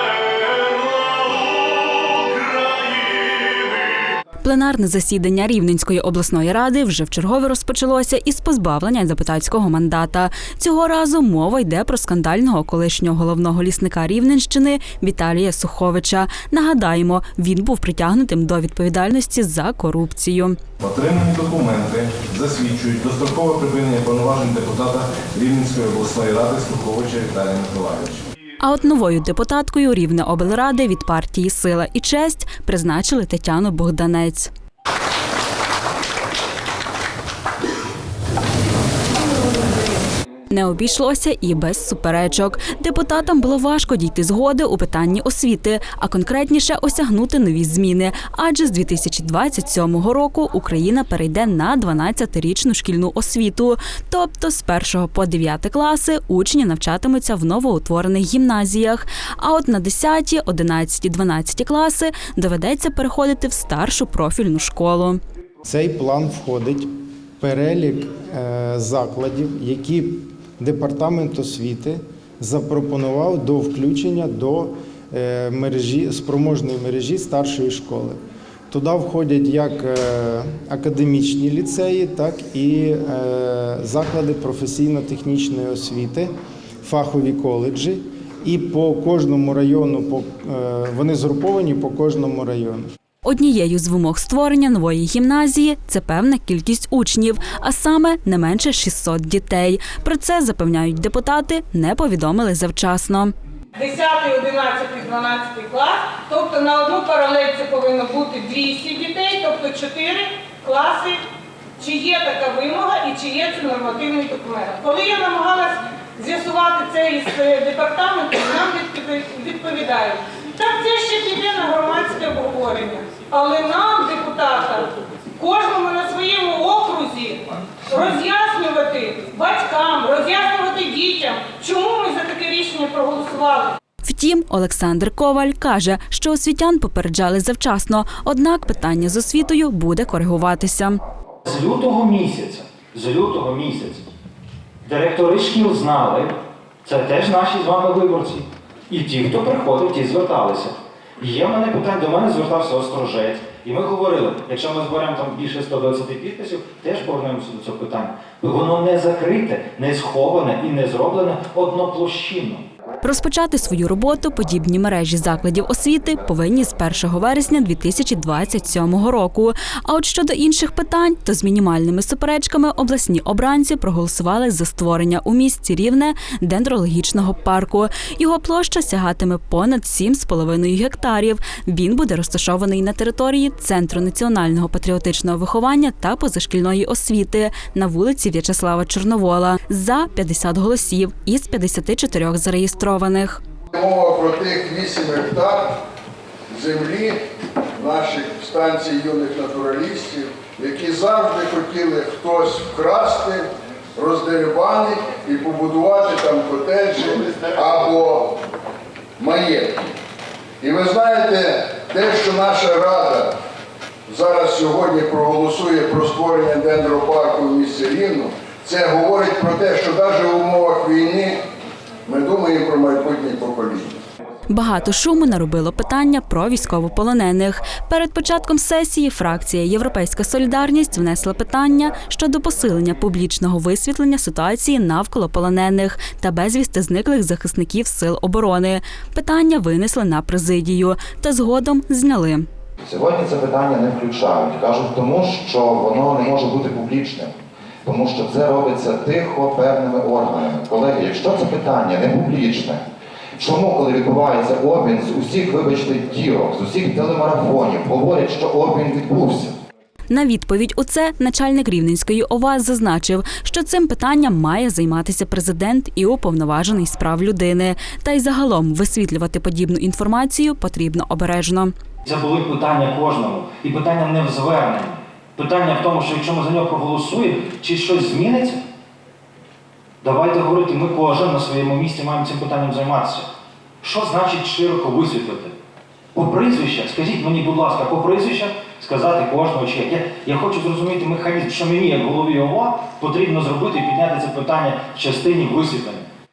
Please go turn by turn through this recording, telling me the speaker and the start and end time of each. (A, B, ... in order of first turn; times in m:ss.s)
0:04.4-0:20.6 A
0:20.8-0:28.2 B
0:28.6-0:34.5 A
0:40.5-1:05.2 A
1:05.6-1:18.2 C
1:18.7-1:26.3 C
1:26.8-1:32.8 C
1:33.2-1:43.3 A
1:43.8-1:51.2 D
1:51.8-2:13.8 D
2:14.0-2:21.0 A
2:21.4-2:24.0 E
2:24.8-2:42.6 E
2:43.0-3:13.4 A
3:13.7-3:15.8 F
3:16.5-3:17.2 F
3:17.7-3:23.4 F
3:24.0-3:28.4 F
3:29.2-3:29.9 F
3:30.6-3:33.4 F
3:34.1-3:41.4 F
3:42.0-3:44.0 F
3:44.5-4:02.4 A
4:02.8-4:12.8 G
4:13.4-4:19.5 G
4:20.1-4:31.7 A
4:32.0-4:38.6 E
4:40.0-4:43.3 E
4:43.8-4:45.5 E
4:46.1-4:56.0 E